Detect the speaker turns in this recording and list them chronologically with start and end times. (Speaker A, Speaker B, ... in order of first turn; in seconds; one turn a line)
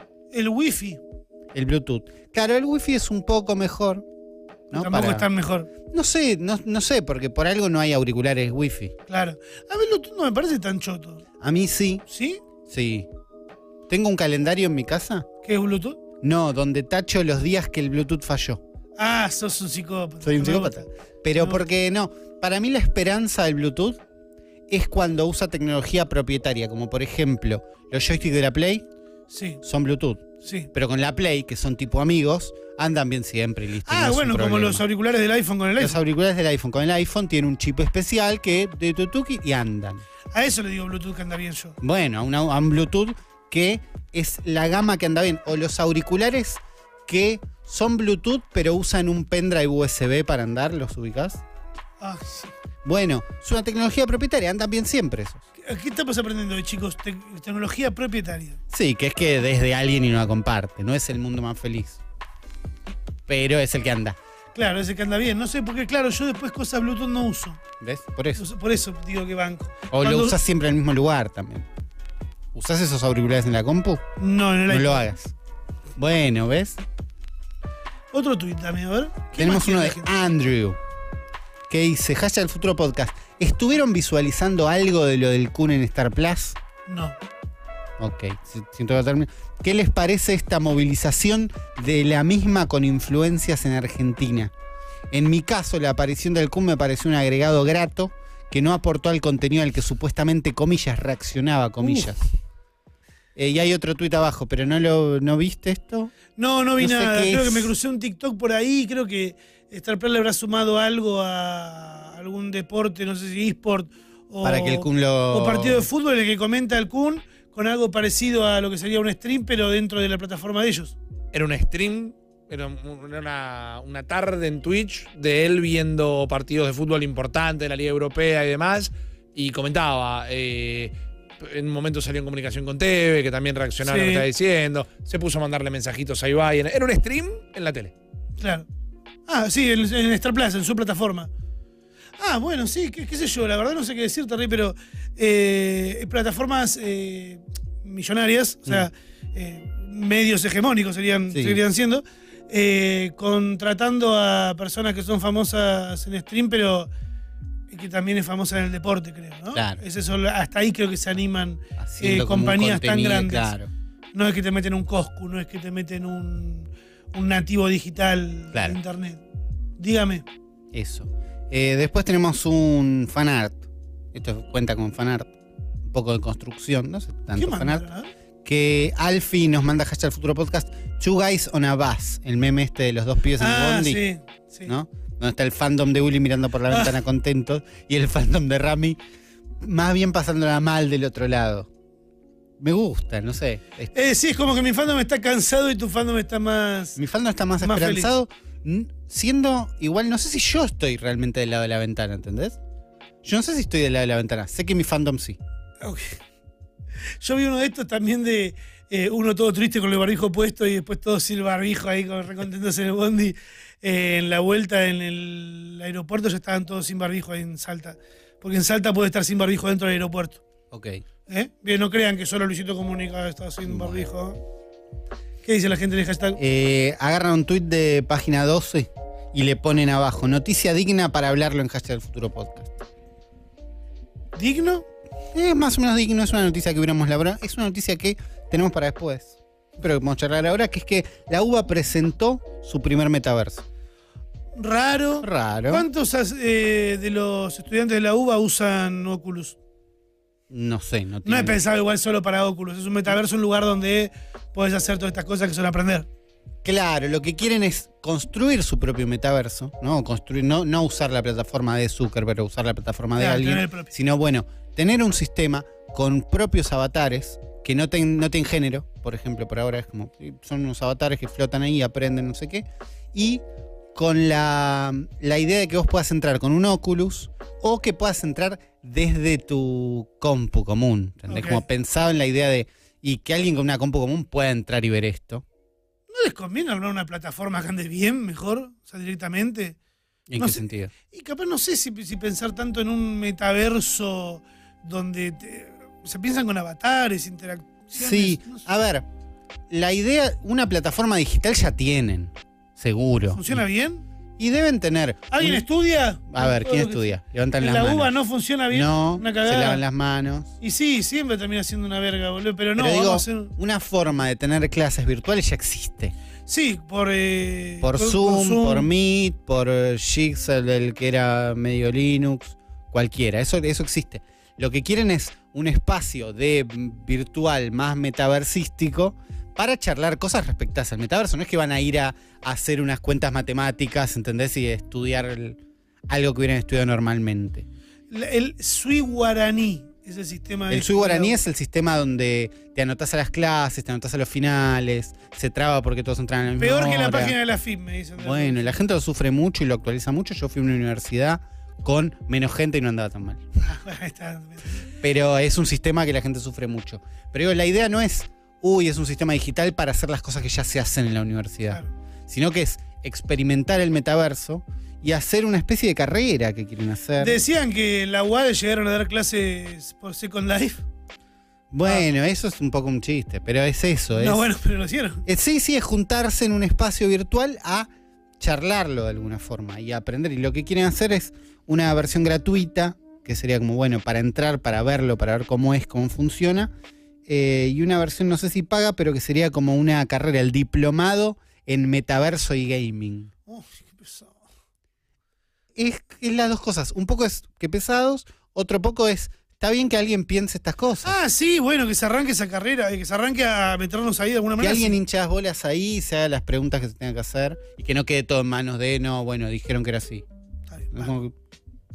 Speaker A: 0.3-1.0
Speaker B: 1.5-4.0
Speaker B: 4.7-5.3
Speaker A: 4.7-5.7
Speaker B: 5.9-8.9
Speaker A: 9.1-11.2
Speaker B: 11.4-12.0
Speaker A: 12.1-12.4
Speaker B: 12.6-13.1
Speaker B: 13.9-15.3
Speaker A: 15.4-16.0
Speaker B: 16.2-18.6
Speaker A: 19.0-21.6
Speaker B: 20.2-24.0
Speaker B: 24.7-28.8
Speaker A: 29.3-29.6
Speaker B: 29.6-34.8
Speaker A: 30.4-30.7
Speaker A: 33.8-36.0
Speaker B: 35.8-40.0
Speaker A: 40.3-41.8
Speaker B: 41.8-51.4
Speaker A: 52.0-52.5
Speaker B: 52.8-55.4
Speaker A: 55.6-58.6
Speaker B: 58.7-62.0
Speaker B: 63.3-64.2
Speaker A: 64.5-67.6
Speaker B: 67.8-68.4
Speaker A: 68.3-70.4
Speaker B: 69.9-71.7
Speaker B: 72.5-74.0
Speaker A: 74.2-75.0
Speaker B: 74.7-75.3
Speaker B: 76.0-76.8
Speaker A: 78.1-80.1
Speaker B: 79.3-80.8
Speaker B: 81.7-86.6
Speaker A: 86.9-87.2
Speaker B: 88.0-94.5
Speaker B: 95.1-102.2
Speaker A: 101.8-102.1
Speaker B: 103.3-106.1
Speaker A: 106.4-121.0
Speaker B: 106.8-107.7
Speaker B: 114.4-115.9
Speaker C: 121.3-137.9
Speaker A: 133.8-134.3
Speaker A: 138.4-138.7
Speaker A: 139.3-141.3
Speaker A: 142.2-156.9
Speaker B: 151.3-151.6
Speaker A: 157.7-163.5
Speaker B: 159.5-159.8
Speaker B: 161.8-163.7
Speaker A: 164.1-169.2
Speaker B: 168.5-168.8
Speaker A: 169.8-170.2
Speaker B: 170.7-175.3
Speaker B: 175.9-177.8
Speaker A: 177.3-178.1
Speaker B: 178.4-184.0
Speaker A: 183.4-184.7
Speaker B: 184.7-189.0
Speaker A: 186.7-186.9
Speaker B: 189.6-191.7
Speaker B: 192.6-193.9
Speaker A: 193.9-197.0
Speaker B: 196.9-202.6
Speaker A: 197.6-198.1
Speaker B: 203.2-205.4
Speaker A: 205.8-206.2
Speaker A: 207.2-220.4
Speaker B: 220.7-221.0
Speaker A: 221.3-224.4
Speaker B: 223.7-224.1
Speaker A: 225.4-226.4
Speaker B: 226.4-232.8
Speaker A: 234.3-234.8
Speaker B: 235.3-243.7
Speaker A: 244.6-249.6
Speaker B: 245.2-245.9
Speaker B: 250.5-251.6
Speaker A: 251.2-256.1
Speaker B: 256.6-273.4
Speaker A: 263.1-263.9
Speaker B: 273.9-285.4
Speaker A: 281.3-281.6
Speaker A: 286.1-289.8
Speaker B: 290.3-290.9
Speaker A: 290.4-298.6
Speaker B: 297.9-299.1
Speaker B: 299.7-303.6
Speaker A: 303.3-304.0
Speaker B: 304.4-305.6
Speaker A: 305.3-309.8
Speaker B: 306.3-308.2
Speaker B: 308.7-310.5
Speaker A: 310.6-313.5
Speaker B: 312.8-316.1
Speaker A: 316.5-318.9
Speaker B: 317.8-337.7
Speaker A: 338.1-341.4
Speaker B: 340.7-347.4
Speaker A: 346.6-348.7
Speaker B: 348.2-353.4
Speaker A: 353.6-354.8
Speaker B: 355.0-367.4
Speaker A: 367.2-370.8
Speaker B: 371.7-374.4
Speaker A: 374.1-375.2
Speaker B: 375.2-386.7
Speaker B: 387.3-393.3
Speaker A: 393.5-394.4
Speaker B: 395.8-401.1
Speaker A: 401.0-405.0
Speaker B: 404.6-410.2
Speaker A: 410.7-411.1
Speaker B: 410.9-411.3